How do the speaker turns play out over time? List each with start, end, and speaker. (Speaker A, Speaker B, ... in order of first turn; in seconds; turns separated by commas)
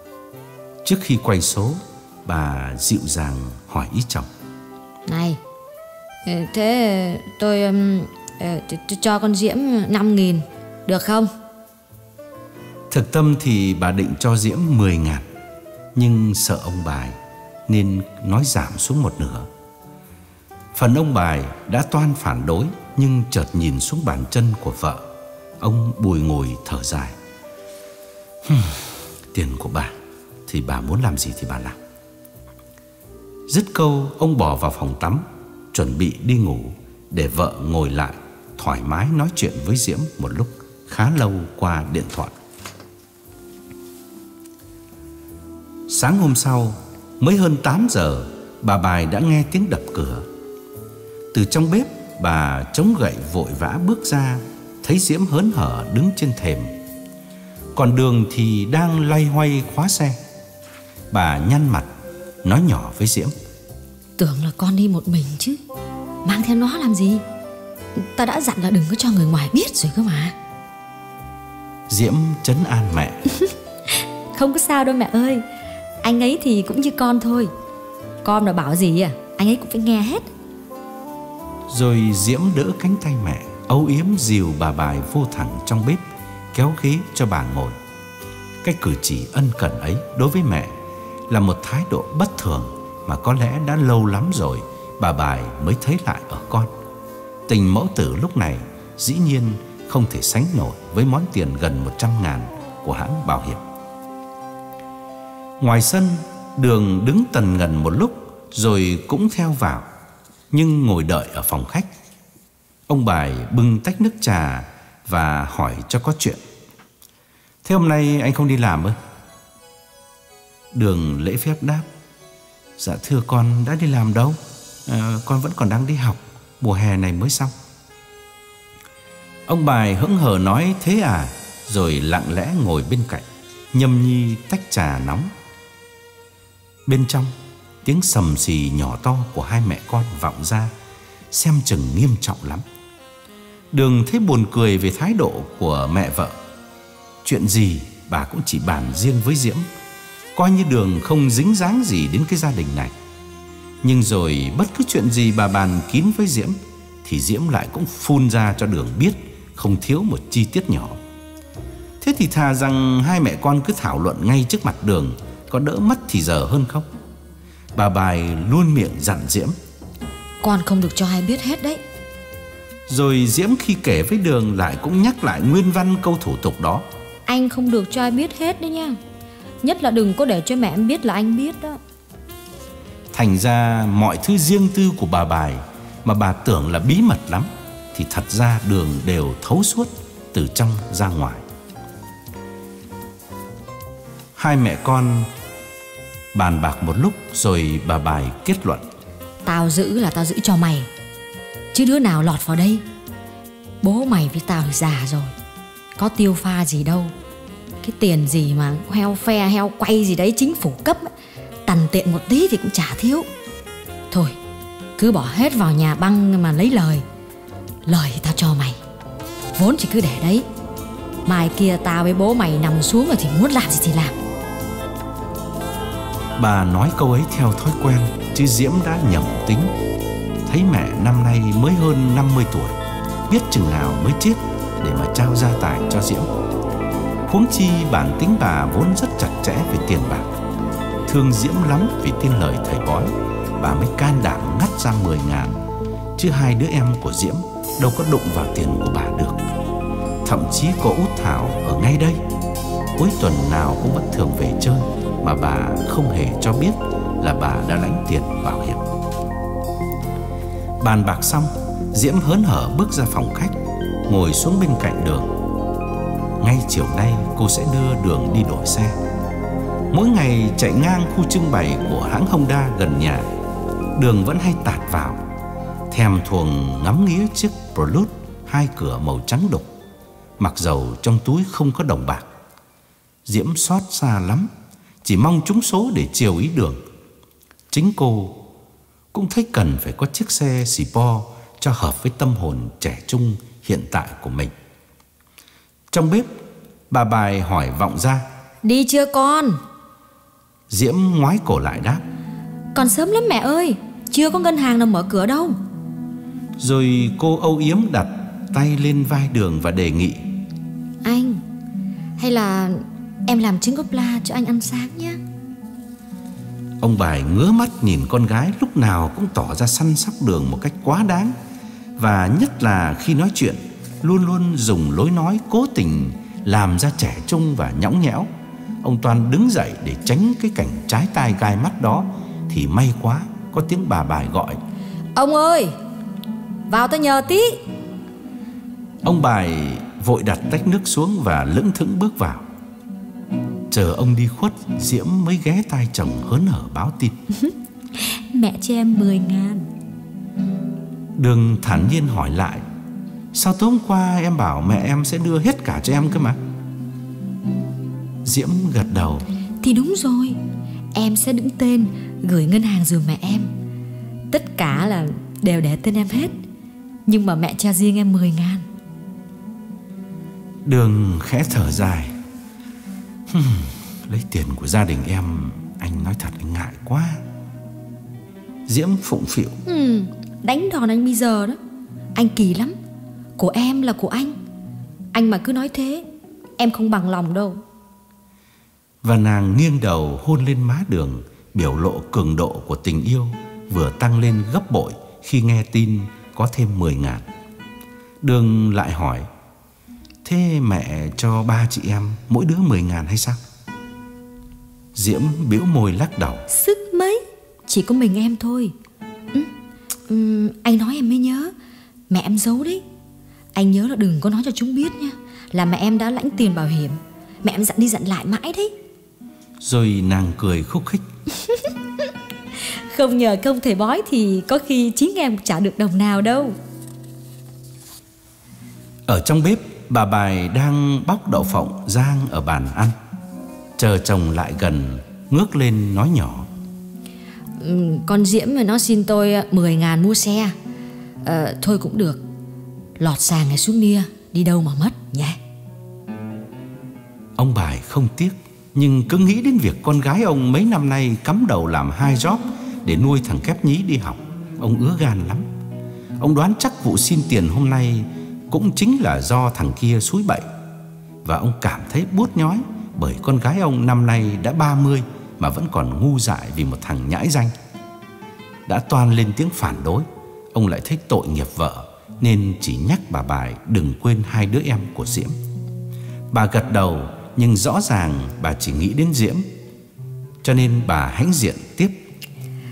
Speaker A: 0.8-4.3, Speaker B: 5.1-5.4, Speaker B: 6.2-11.3, Speaker A: 12.9-15.2, Speaker A: 15.9-19.5, Speaker A: 20.7-25.0, Speaker A: 25.6-27.1, Speaker A: 28.4-31.8, Speaker A: 33.5-42.3, Speaker A: 45.9-50.2, Speaker A: 51.3-56.7, Speaker A: 57.7-60.2, Speaker A: 61.1-61.9, Speaker A: 62.4-63.3, Speaker B: 64.2-65.6, Speaker B: 66.2-67.2, Speaker B: 67.9-70.3, Speaker A: 71.9-73.3, Speaker B: 73.9-75.4, Speaker B: 76.0-77.5, Speaker B: 78.2-80.3, Speaker A: 81.7-87.8, Speaker A: 88.6-90.7, Speaker A: 91.3-96.7, Speaker A: 97.5-103.6, Speaker A: 105.6-109.9, Speaker A: 110.5-111.9, Speaker A: 112.9-116.4, Speaker A: 117.6-119.0, Speaker A: 120.7-121.9, Speaker A: 122.8-127.5, Speaker A: 129.5-135.3, Speaker A: 136.8-140.7, Speaker A: 141.3-142.6, Speaker A: 143.7-146.4, Speaker A: 147.2-149.7, Speaker A: 150.3-152.9, Speaker A: 153.8-161.0, Speaker A: 162.0-166.9, Speaker A: 167.7-169.5, Speaker B: 170.4-171.8, Speaker A: 172.9-176.8, Speaker B: 177.2-179.0, Speaker B: 179.6-181.8, Speaker A: 183.1-191.4, Speaker A: 194.3-195.3, Speaker A: 196.3-198.8, Speaker B: 199.4-200.9, Speaker B: 201.7-202.8, Speaker B: 203.8-205.3, Speaker B: 206.0-207.1, Speaker B: 207.8-211.1, Speaker B: 211.7-213.3, Speaker B: 214.1-214.4, Speaker B: 215.0-217.0, Speaker B: 217.8-218.8, Speaker B: 219.5-220.5, Speaker B: 221.2-224.1, Speaker A: 226.4-229.7, Speaker A: 230.4-236.3, Speaker A: 237.3-240.3, Speaker A: 241.1-245.6, Speaker A: 246.2-249.4, Speaker A: 250.2-252.2, Speaker A: 253.0-258.8, Speaker A: 260.8-263.6, Speaker A: 264.1-265.3, Speaker A: 266.4-268.9, Speaker A: 269.9-273.3, Speaker A: 273.9-275.2, Speaker A: 275.9-279.7, Speaker A: 280.4-282.3, Speaker A: 283.2-284.5, Speaker A: 285.0-286.8, Speaker A: 287.7-288.4, Speaker A: 289.1-294.5, Speaker A: 295.9-296.3, Speaker A: 296.9-298.3, Speaker B: 298.6-299.6, Speaker A: 300.7-302.0, Speaker B: 302.7-305.6, Speaker A: 306.6-310.2, Speaker B: 311.0-311.4, Speaker B: 312.2-315.2, Speaker A: 316.8-321.3, Speaker A: 322.0-328.3, Speaker A: 328.8-334.6, Speaker B: 335.1-335.7, Speaker B: 336.7-337.6, Speaker A: 339.0-342.4, Speaker A: 343.7-347.2, Speaker B: 347.4-349.7, Speaker A: 351.2-352.6, Speaker A: 353.3-356.4, Speaker A: 358.2-359.2, Speaker B: 359.6-360.4, Speaker B: 360.9-363.5, Speaker B: 364.3-366.4, Speaker B: 367.1-368.6, Speaker A: 370.6-372.1, Speaker A: 373.3-377.2, Speaker A: 378.7-379.6, Speaker B: 379.6-381.6, Speaker B: 382.1-382.7, Speaker B: 383.4-384.4, Speaker B: 385.1-386.0, Speaker B: 386.6-387.6, Speaker A: 389.0-397.2, Speaker A: 398.2-399.3, Speaker A: 400.2-403.4, Speaker A: 404.9-406.5, Speaker B: 406.5-408.7, Speaker B: 410.1-411.5, Speaker B: 412.1-412.8, Speaker B: 413.5-418.7, Speaker A: 419.6-421.1, Speaker B: 421.4-421.7, Speaker B: 422.5-426.5, Speaker A: 429.1-432.9, Speaker A: 433.8-436.5, Speaker B: 437.6-440.5, Speaker B: 441.2-442.2, Speaker B: 443.0-445.4, Speaker A: 447.4-455.5, Speaker A: 456.2-460.5, Speaker A: 461.2-467.5, Speaker A: 468.7-475.3, Speaker A: 476.3-479.5, Speaker A: 480.4-482.0